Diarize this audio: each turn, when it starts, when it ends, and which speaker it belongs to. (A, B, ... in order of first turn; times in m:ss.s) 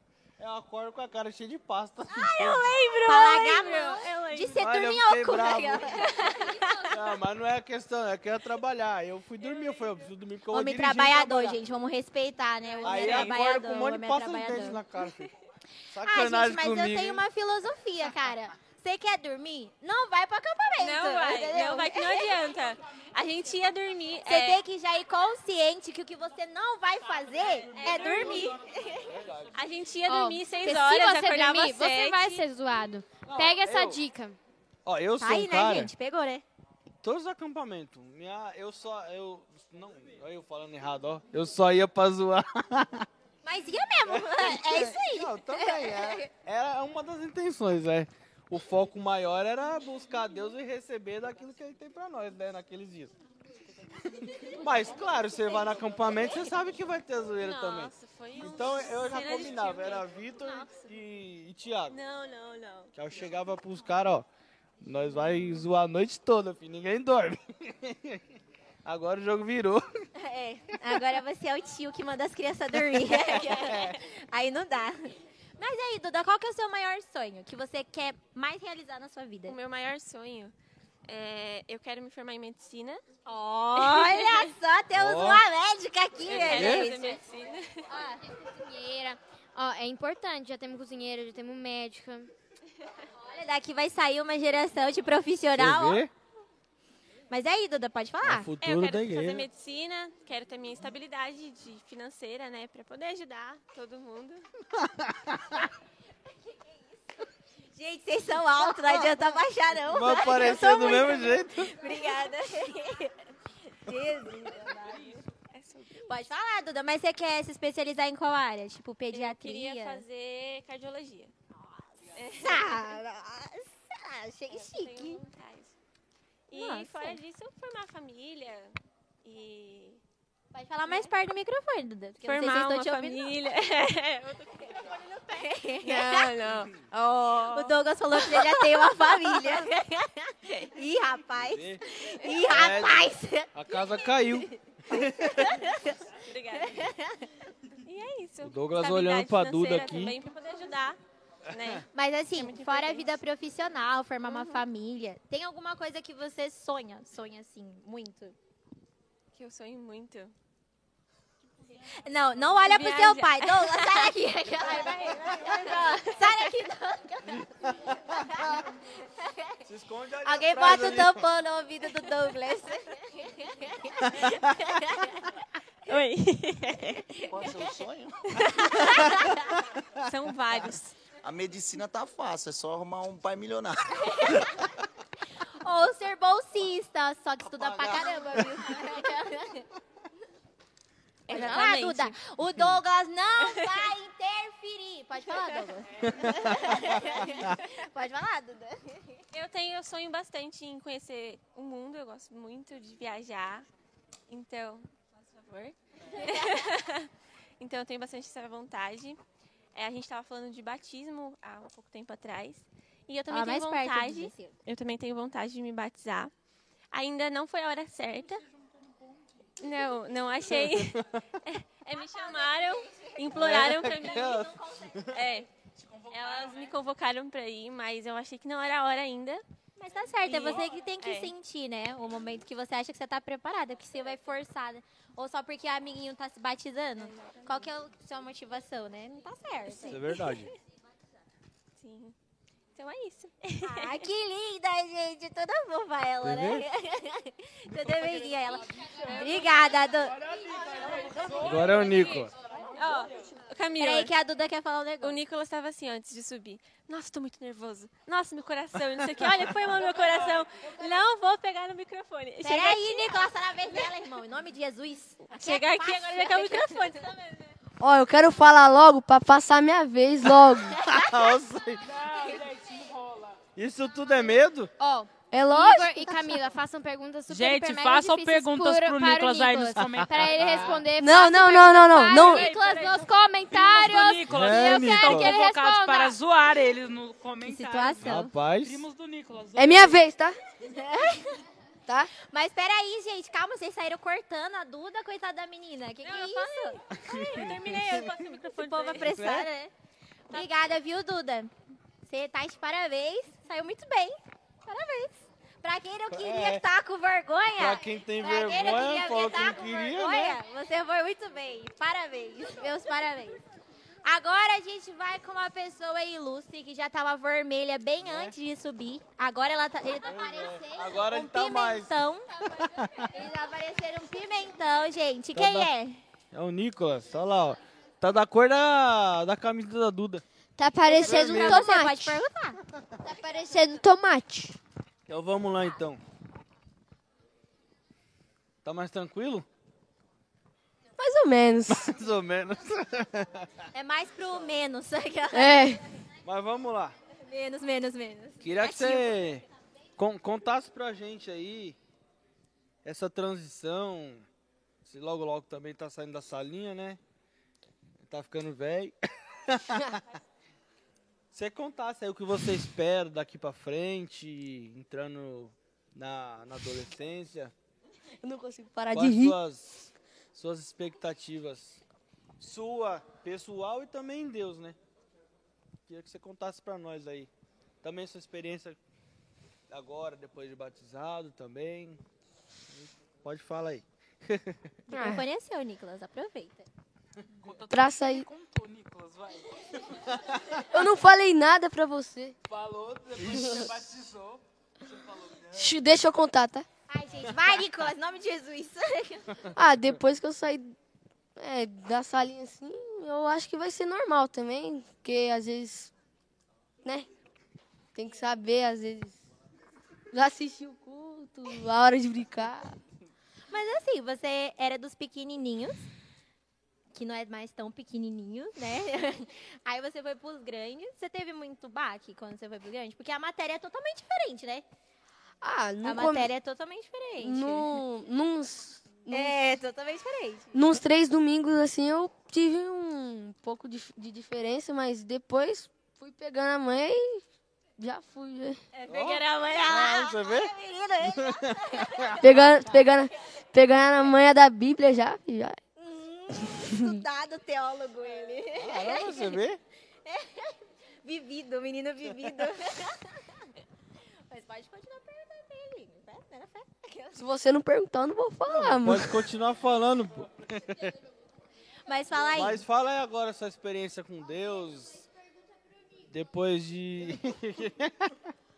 0:00.4-0:02.8 A
0:02.1-0:06.9 B
0:02.7-0:04.6 C
0:04.5-0:06.0 A
0:06.1-0:06.5 C
0:06.9-0:11.6 A
0:10.5-0:14.8 B
0:12.7-0:13.4 C
0:12.8-0:15.3 A
0:15.9-0:17.2 A
0:16.0-0:22.5 B
0:20.8-0:24.6 C
0:24.2-0:29.1 B
0:27.6-0:29.0 D
0:27.7-0:28.6 C
0:29.1-0:29.5 A
0:29.5-0:32.4 C
0:30.1-0:34.4 E
0:33.2-0:34.0 A
0:34.9-0:35.9 A
0:35.2-0:36.4 B
0:37.0-0:43.1 A
0:43.4-0:46.3 B
0:44.1-0:53.1 A
0:54.2-1:02.0 A
0:57.4-1:01.0 C
1:01.9-1:02.9 C
1:02.9-1:04.3 A
1:04.8-1:08.2 A
1:08.8-1:09.9 A
1:10.2-1:19.6 B
1:13.2-1:13.9 A
1:19.5-1:20.5 C
1:21.1-1:23.0 C
1:23.3-1:27.2 B
1:23.8-1:24.5 C
1:24.9-1:25.4 A
1:26.2-1:27.9 C
1:26.4-1:26.9 A
1:27.9-1:28.2 B
1:28.0-1:32.3 E
1:33.2-1:36.1 B
1:35.5-1:36.1 A
1:37.3-1:38.5 B
1:38.2-1:39.5 A
1:38.6-1:44.5 C
1:44.9-1:45.4 A
1:46.5-1:46.8 B
1:47.7-1:53.1 B
1:48.6-1:49.4 C
1:49.9-1:51.7 A
1:53.7-1:55.2 B
1:55.4-1:56.1 C
1:56.1-2:00.0 B
1:59.1-2:01.3 C
2:01.5-2:05.2 B
2:02.1-2:02.9 C
2:04.5-2:05.8 C
2:06.5-2:10.0 C
2:06.5-2:07.2 B
2:10.5-2:13.5 B
2:10.9-2:11.1 C
2:12.2-2:15.0 C
2:14.5-2:26.0 B
2:15.8-2:19.7 C
2:21.4-2:21.8 A
2:22.5-2:25.6 A
2:26.2-2:26.8 C
2:26.5-2:27.2 B
2:27.8-2:33.2 C
2:28.4-2:30.2 A
2:31.5-2:31.8 A
2:31.9-2:38.4 B
2:34.3-2:34.6 C
2:39.3-2:40.3 C
2:42.0-2:47.6 B
2:42.4-2:46.6 C
2:47.7-2:48.5 A
2:48.2-2:48.5 B
2:49.2-2:49.6 B
2:49.6-2:51.3 A
2:50.2-2:55.1 B
2:54.1-2:54.5 A
2:55.9-2:57.0 C
2:57.3-2:58.3 F
2:58.5-2:59.2 B
2:58.7-2:59.2 C
3:00.1-3:01.0 C
3:01.2-3:04.6 F
3:05.6-3:09.7 B
3:07.4-3:08.2 F
3:11.3-3:12.2 C
3:11.3-3:19.2 B
3:13.4-3:13.8 C
3:16.0-3:17.6 A
3:19.3-3:23.7 C
3:24.3-3:27.1 C
3:26.1-3:26.7 B
3:27.6-3:29.2 C
3:29.7-3:36.3 C
3:33.3-3:34.6 B
3:36.9-3:38.4 C
3:39.6-3:44.5 C
3:40.5-3:41.2 A
3:42.0-3:45.1 B
3:43.3-3:45.1 A
3:45.1-3:45.5 C
3:45.9-3:46.7 D
3:46.1-3:49.4 C
3:49.8-4:00.4 B
3:50.2-3:51.3 C
3:57.0-3:57.5 C
3:59.7-4:00.5 A
4:01.8-4:02.2 C
4:02.8-4:04.0 C
4:03.6-4:11.5 B
4:06.2-4:06.6 A
4:07.9-4:09.3 D
4:10.2-4:12.4 D
4:10.7-4:12.2 C
4:11.4-4:12.3 A
4:12.7-4:14.1 C
4:13.8-4:15.2 B
4:15.0-4:23.9 C
4:19.9-4:20.2 B
4:22.4-4:27.1 B
4:25.3-4:27.5 C
4:27.8-4:30.8 G
4:30.8-4:31.3 B
4:30.8-4:31.9 A
4:31.8-4:33.4 D
4:33.6-4:34.7 A
4:34.8-4:46.2 E
4:35.3-4:36.2 G
4:37.3-4:40.8 D
4:39.8-4:40.8 A
4:40.9-4:42.5 G
4:42.0-4:50.0 D
4:44.2-4:45.4 A
4:47.4-4:48.4 B
4:48.0-4:48.8 A
4:49.6-4:50.4 G
4:50.7-4:51.4 B
4:51.9-4:52.1 G
4:52.2-4:56.8 B
4:56.0-4:59.3 C
4:57.0-4:58.1 A
4:58.5-4:59.7 B
4:59.0-4:59.5 A
5:00.3-5:01.5 B
5:02.0-5:13.4 B
5:06.1-5:06.6 A
5:07.5-5:10.4 A
5:14.0-5:22.3 B
5:18.0-5:18.4 A
5:20.1-5:22.0 A
5:22.6-5:23.1 A
5:23.1-5:26.0 B
5:25.3-5:25.7 A
5:26.3-5:30.2 A
5:30.6-5:32.2 H
5:30.9-5:32.6 B
5:31.0-5:31.7 A
5:33.1-5:34.6 H
5:35.1-5:36.0 A
5:38.6-5:39.5 A
5:41.0-5:41.9 G
5:41.7-5:43.5 A
5:43.7-5:45.8 B
5:45.3-5:45.8 G
5:46.2-5:47.0 A
5:47.2-5:49.2 B
5:48.4-5:49.4 A
5:50.0-5:51.8 A
5:52.8-5:54.3 A
5:54.8-5:57.0 A
5:58.0-5:58.9 A
5:59.5-5:59.8 A
6:01.3-6:07.5 A
6:08.2-6:09.4 G
6:08.9-6:11.8 A
6:12.4-6:14.8 A
6:15.9-6:17.3 A
6:17.8-6:18.8 A
6:19.7-6:22.0 A
6:22.7-6:24.8 A
6:24.9-6:26.7 B
6:24.9-6:25.2 G
6:27.4-6:30.1 D
6:27.7-6:28.3 G
6:30.7-6:32.4 G
6:32.5-6:34.4 D
6:33.3-6:33.7 G
6:35.1-6:35.6 D
6:35.5-6:36.7 G
6:36.9-6:39.3 B
6:39.6-6:40.8 G
6:41.4-6:45.9 G
6:48.0-6:49.2 G
6:50.1-6:52.8 G
6:53.5-6:55.9 B
6:56.9-7:04.6 B
7:05.4-7:06.3 G
7:05.8-7:07.8 B
7:07.2-7:09.4 G
7:09.1-7:10.6 B
7:10.5-7:17.2 G
7:17.8-7:18.6 G
7:18.7-7:22.4 B
7:18.9-7:20.5 A
7:21.1-7:22.1 A
7:22.2-7:25.6 G
7:25.8-7:29.4 B
7:26.6-7:27.0 G
7:28.6-7:29.6 A
7:30.0-7:33.5 B
7:34.3-7:37.2 B
7:37.2-7:39.3 G
7:38.5-7:41.0 A
7:41.9-7:42.6 B
7:42.3-7:45.1 A
7:46.1-7:48.1 A